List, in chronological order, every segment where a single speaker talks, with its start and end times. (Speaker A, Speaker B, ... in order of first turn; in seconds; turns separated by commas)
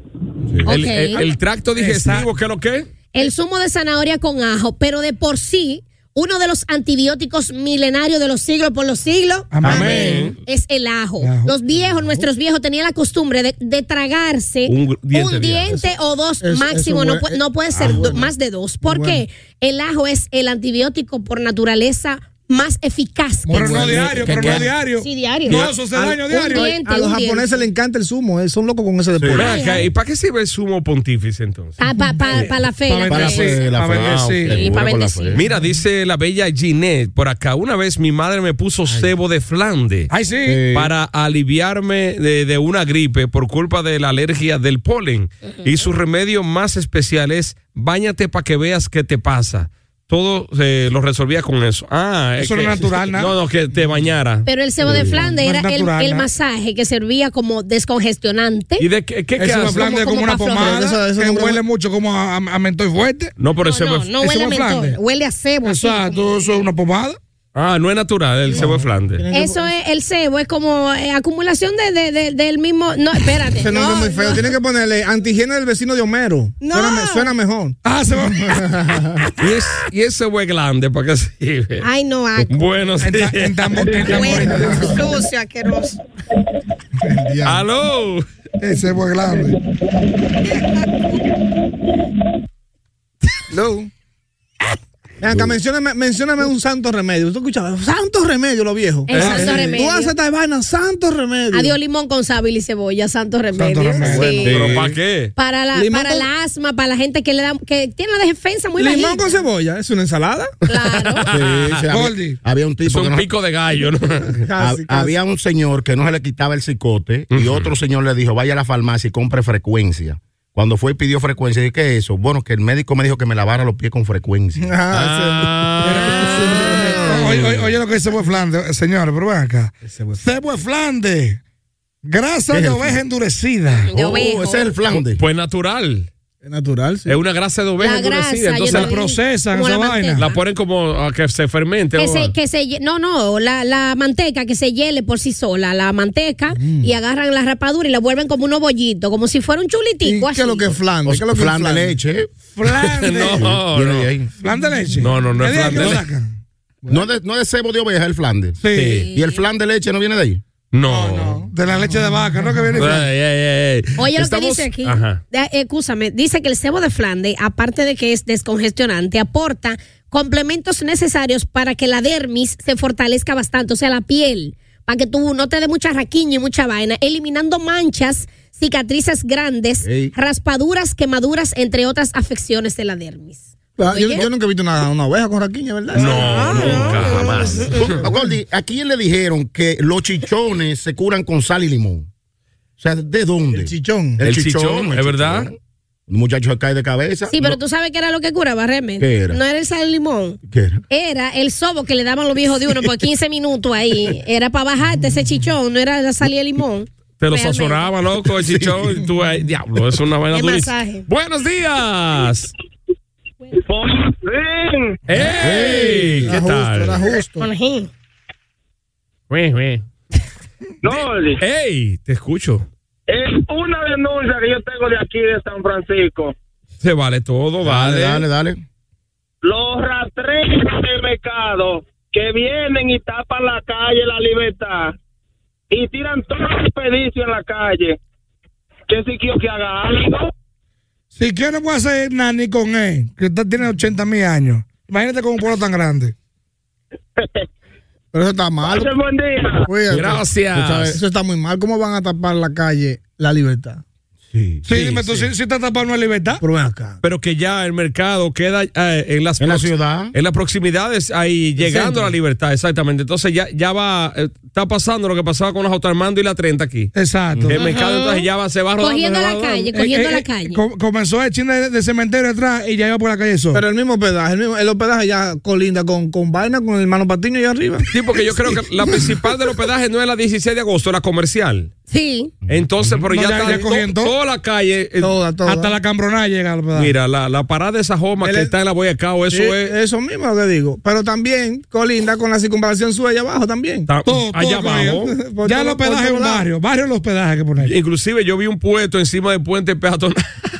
Speaker A: 0.6-1.2, Speaker B: 0.7-2.9, Speaker C: 1.8-2.3, Speaker A: 3.1-24.0, Speaker C: 9.5-10.3, Speaker B: 9.7-10.3, Speaker C: 11.2-11.5, Speaker B: 14.7-15.7, Speaker D: 16.4-18.3, Speaker E: 17.7-18.2, Speaker D: 18.9-19.2, Speaker D: 23.5-24.7, Speaker C: 23.5-26.7, Speaker E: 23.7-24.7, Speaker A: 25.0-25.7, Speaker D: 25.5-29.5, Speaker A: 26.5-27.6, Speaker E: 29.2-29.5, Speaker B: 29.3-31.8, Speaker A: 29.3-29.9, Speaker A: 31.8-33.6, Speaker C: 32.5-34.6, Speaker E: 32.9-35.5, Speaker B: 33.9-34.5, Speaker A: 34.5-35.4, Speaker B: 35.3-40.1, Speaker C: 40.1-40.6, Speaker E: 40.5-40.9, Speaker B: 40.7-54.5, Speaker C: 52.4-53.3, Speaker A: 54.5-58.9, Speaker E: 54.9-55.2, Speaker C: 55.0-56.3, Speaker B: 58.8-59.8, Speaker C: 59.4-63.4, Speaker A: 59.7-60.8, Speaker D: 60.5-61.6, Speaker B: 63.4-64.1, Speaker A: 63.6-66.6, Speaker C: 64.2-65.0, Speaker C: 65.6-67.2, Speaker B: 67.5-69.2, Speaker D: 68.5-69.7, Speaker A: 69.3-74.5, Speaker D: 73.6-79.2, Speaker A: 76.6-77.3, Speaker C: 77.8-78.7, Speaker B: 79.4-81.9, Speaker A: 81.8-82.6, Speaker B: 82.5-84.4, Speaker C: 83.0-85.1, Speaker A: 84.0-86.0, Speaker D: 84.4-85.0, Speaker D: 87.0-87.6, Speaker B: 87.4-88.2, Speaker C: 88.6-89.6, Speaker A: 90.4-91.2, Speaker D: 93.5-93.9, Speaker D: 95.2-101.8, Speaker A: 99.1-100.1, Speaker B: 99.1-99.6, Speaker C: 99.2-99.8, Speaker A: 101.5-104.6, Speaker C: 103.6-104.5, Speaker D: 104.0-104.9, Speaker E: 104.4-104.9, Speaker B: 104.5-105.3, Speaker A: 105.4-109.2, Speaker D: 105.7-106.3, Speaker D: 108.8-110.5, Speaker A: 110.7-111.2, Speaker B: 111.2-111.8, Speaker E: 111.3-113.3, Speaker C: 111.9-112.4, Speaker B: 112.8-114.4, Speaker D: 114.4-115.2, Speaker E: 114.6-124.7, Speaker B: 117.3-117.7, Speaker D: 124.6-127.5, Speaker B: 124.9-127.5, Speaker C: 125.8-131.4, Speaker D: 129.8-130.2, Speaker C: 132.0-133.9, Speaker E: 132.5-133.0, Speaker A: 133.8-134.7, Speaker E: 133.9-135.2, Speaker B: 134.9-136.1, Speaker D: 136.4-137.2, Speaker B: 137.1-138.9, Speaker A: 137.8-140.3, Speaker C: 138.7-140.3, Speaker B: 140.2-142.3, Speaker A: 142.0-150.7, Speaker D: 146.6-146.9, Speaker D: 150.0-152.0, Speaker E: 151.1-152.3, Speaker C: 152.5-153.5, Speaker B: 152.7-154.1, Speaker E: 153.4-154.3, Speaker C: 154.4-156.3, Speaker D: 154.4-155.0, Speaker B: 155.0-156.0, Speaker E: 156.9-158.6, Speaker C: 158.6-159.1, Speaker B: 158.7-159.1, Speaker A: 159.0-159.4, Speaker E: 159.1-160.4, Speaker B: 160.7-161.4, Speaker C: 160.9-163.0, Speaker D: 161.1-163.0, Speaker B: 162.8-165.2, Speaker A: 164.0-184.3, Speaker E: 179.8-180.1, Speaker D: 183.8-186.8, Speaker B: 185.9-188.0, Speaker A: 186.1-187.9, Speaker E: 186.4-192.1, Speaker D: 187.9-188.3, Speaker E: 192.8-195.6, Speaker D: 193.5-194.2, Speaker B: 194.2-195.5, Speaker E: 196.1-197.5, Speaker A: 197.3-200.4, Speaker E: 199.0-199.4, Speaker E: 200.5-200.8, Speaker A: 200.9-207.9, Speaker B: 207.2-212.5, Speaker E: 208.4-209.0, Speaker A: 210.3-211.1, Speaker F: 213.7-215.0, Speaker B: 215.1-217.1, Speaker E: 215.4-216.3, Speaker D: 215.4-217.5, Speaker A: 217.4-217.9, Speaker B: 219.3-219.8, Speaker F: 220.8-221.4, Speaker B: 220.9-222.7, Speaker F: 223.1-226.3, Speaker B: 226.8-228.2, Speaker E: 227.6-228.6, Speaker F: 229.4-234.9, Speaker F: 235.7-238.0, Speaker F: 238.9-240.3, Speaker C: 241.2-246.1, Speaker D: 248.1-248.9, Speaker F: 248.6-249.7, Speaker D: 249.7-250.3, Speaker B: 249.9-251.0, Speaker E: 249.9-251.0, Speaker D: 250.9-253.8, Speaker E: 254.3-254.6, Speaker C: 254.7-256.4, Speaker B: 254.7-255.3, Speaker D: 256.4-257.0, Speaker B: 257.0-266.9, Speaker E: 259.4-260.1, Speaker D: 261.6-262.1, Speaker C: 266.9-267.6, Speaker B: 267.5-269.7, Speaker A: 267.6-268.3, Speaker A: 268.8-270.6, Speaker C: 269.7-273.6, Speaker D: 273.5-277.9, Speaker B: 277.9-281.7, Speaker D: 278.8-279.2, Speaker A: 281.9-282.3, Speaker E: 282.5-283.1, Speaker B: 282.5-285.1, Speaker C: 283.1-284.1, Speaker D: 283.4-283.7, Speaker D: 285.0-285.7, Speaker C: 285.4-286.9, Speaker B: 286.7-289.7, Speaker D: 288.2-288.5, Speaker D: 289.3-293.9, Speaker B: 293.9-295.2, Speaker C: 294.1-297.7, Speaker D: 294.9-296.5, Speaker B: 297.6-300.2